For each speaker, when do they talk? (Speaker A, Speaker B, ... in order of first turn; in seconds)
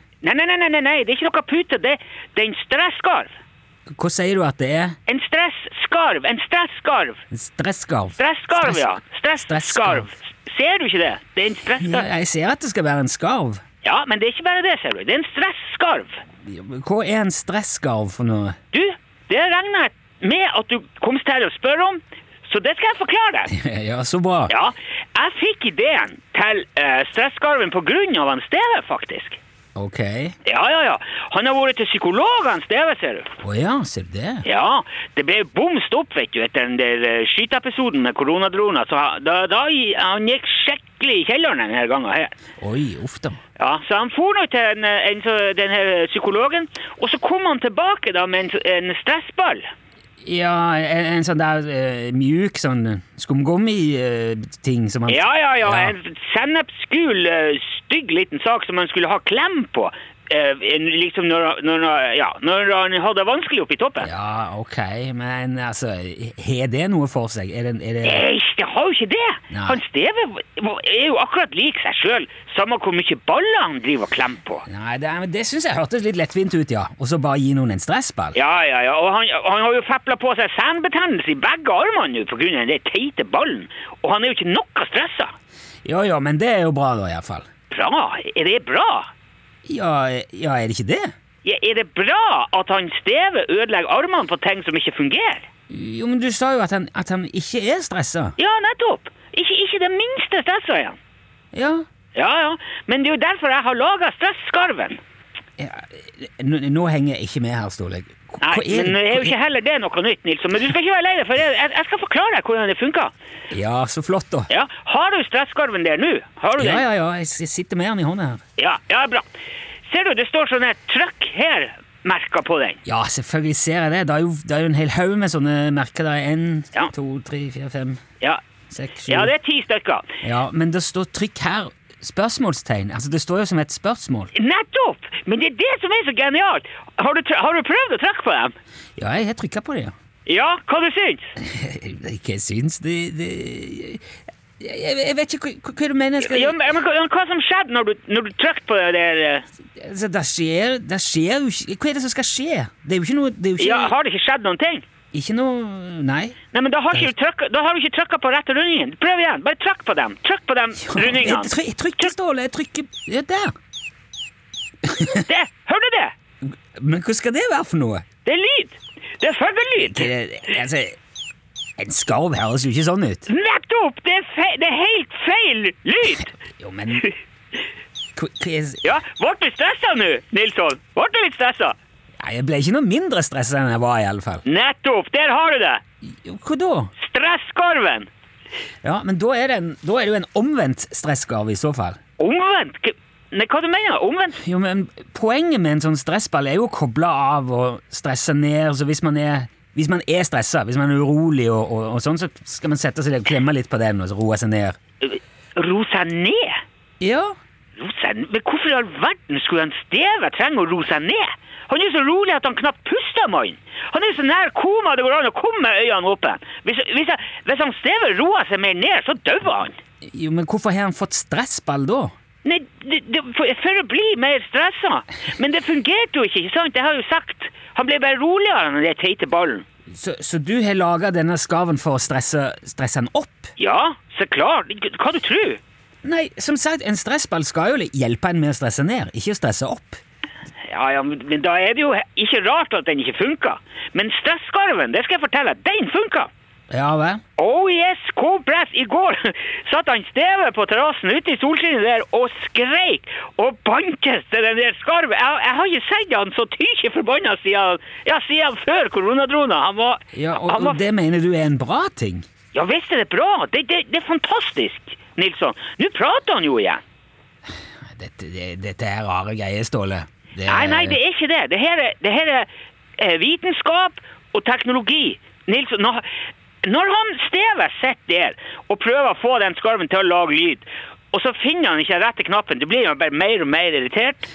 Speaker A: 0.2-3.3, 5.1-7.2, 8.2-12.1, 13.8-16.2, 18.7-23.5, 24.5-29.4, 30.4-33.3, 34.4-42.3, 43.6-49.6, 55.1-64.1, 68.0-74.7, 78.3-85.3, 87.7-89.1, 91.4-95.5, 98.4-101.0, 102.1-105.0, 108.4-113.1, 114.5-116.8, 118.6-119.2, 119.9-122.8, 129.1-130.1, 134.3-138.5, 140.2-141.3, 146.2-149.4, 153.6-154.8, 156.5-162.1, 165.2-166.1, 168.2-170.1, 173.3-176.3, 178.8-181.8, 184.4-185.8, 187.0-188.1, 192.2-194.4, 205.0-206.6, 207.8-219.7, 222.4-229.7, 233.6-235.6, 240.7-246.3, 247.4-260.8, 262.5-266.8, 270.4-276.1, 276.6-284.2
Speaker B: 3.9-5.0, 7.3-8.9, 9.4-10.1, 11.8-13.6, 16.4-18.6, 23.5-24.5, 29.8-30.4, 33.4-34.4, 42.6-43.4, 50.2-55.9, 64.0-68.2, 69.5-69.8, 74.7-78.4, 85.8-87.5, 89.7-91.1, 95.7-98.3, 101.5-101.8, 105.6-109.3, 113.5-114.5, 116.5-118.4, 122.8-128.0, 128.7-129.3, 130.2-134.3, 139.0-139.9, 141.4-144.1, 144.6-146.6, 149.7-153.9, 155.1-156.3, 160.8-163.5, 164.8-165.2, 166.7-168.0, 169.8-170.9, 171.8-173.3, 176.5-177.1, 178.1-178.9, 182.2-184.4, 186.2-186.9, 188.8-192.0, 194.4-204.8, 207.0-207.3, 220.0-222.1, 229.9-233.5, 236.0-240.0, 246.7-247.2, 260.1-262.2, 267.8-271.0